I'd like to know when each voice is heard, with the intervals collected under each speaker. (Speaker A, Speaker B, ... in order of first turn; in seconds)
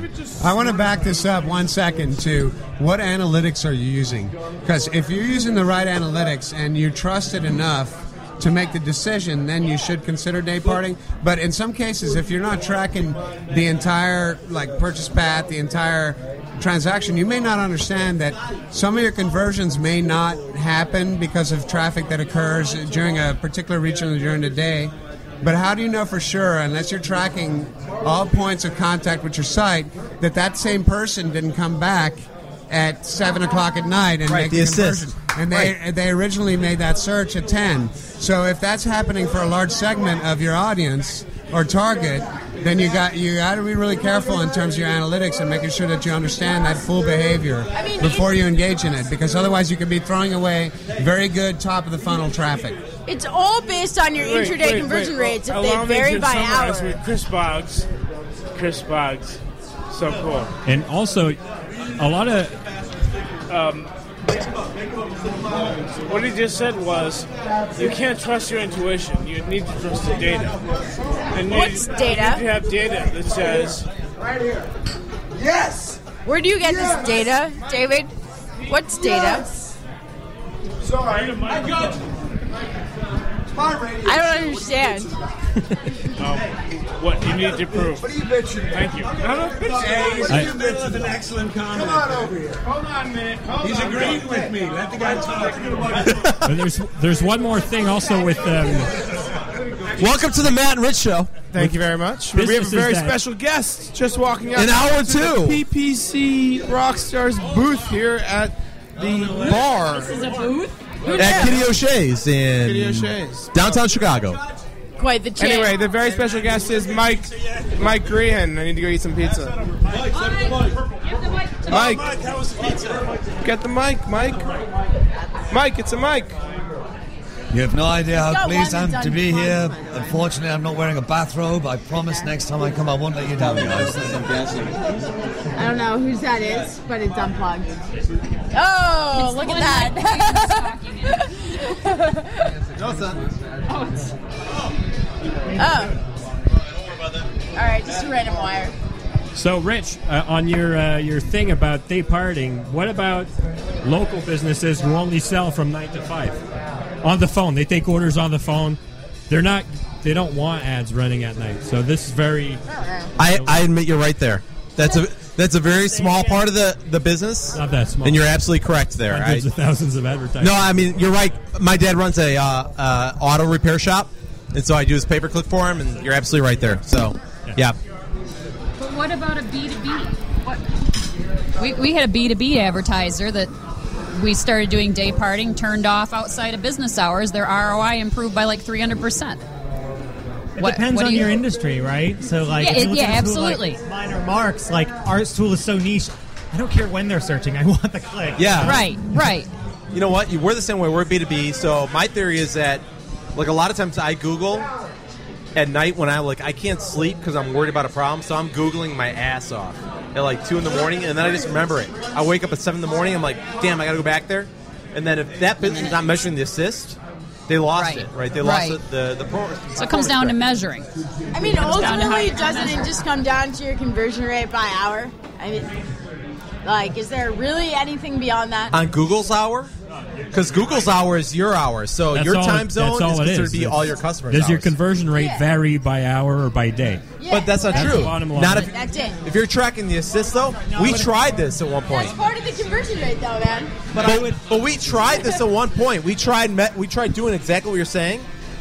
Speaker A: 0.4-52.8
Speaker B: 34.3-35.7, 100.0-101.5, 104.5-105.6, 111.2-114.4, 163.2-169.4, 170.4-177.8, 198.4-198.8, 199.9-202.8, 203.3-204.7, 205.5-217.0, 217.5-220.4, 228.7-229.7, 230.3-234.7, 237.3-238.7, 239.2-242.2, 243.9-248.2
Speaker C: 47.7-48.4, 53.0-57.0, 71.5-72.4, 76.2-78.1, 78.7-79.5, 84.0-85.1, 109.9-111.6, 115.0-115.9, 128.2-130.2, 135.6-137.7, 138.5-140.7, 141.5-142.3, 145.6-145.9, 147.5-148.7, 162.7-163.1, 221.3-225.7, 226.6-228.8, 235.1-235.5, 237.2-239.2, 241.9-244.2
Speaker D: 54.2-57.9, 58.5-59.4, 59.9-60.5, 63.5-63.9, 66.1-70.5, 71.3-73.8, 86.2-88.1, 88.7-90.4
Speaker E: 60.6-61.4, 62.0-62.5, 96.4-98.9, 102.4-103.1, 149.3-153.3, 153.8-156.4, 157.0-162.6, 163.2-163.5, 167.5-168.3, 169.1-170.7, 232.1-237.0, 237.7-238.7
Speaker F: 75.4-75.9, 87.8-88.9, 91.7-92.3
Speaker G: 101.5-110.1, 111.2-111.5, 112.6-113.8, 115.4-119.6, 121.7-122.1, 123.4-124.5, 125.5-126.3
Speaker H: 121.2-121.8, 139.1-141.3, 143.7-144.1, 178.8-180.6, 181.6-183.5, 184.1-189.4, 190.6-191.3, 192.6-193.8, 198.6-199.5, 215.6-216.3, 217.7-218.8, 219.8-220.8, 221.5-223.0
Speaker I: 127.5-134.6
Speaker J: 190.6-198.9, 240.8-241.1, 244.0-244.3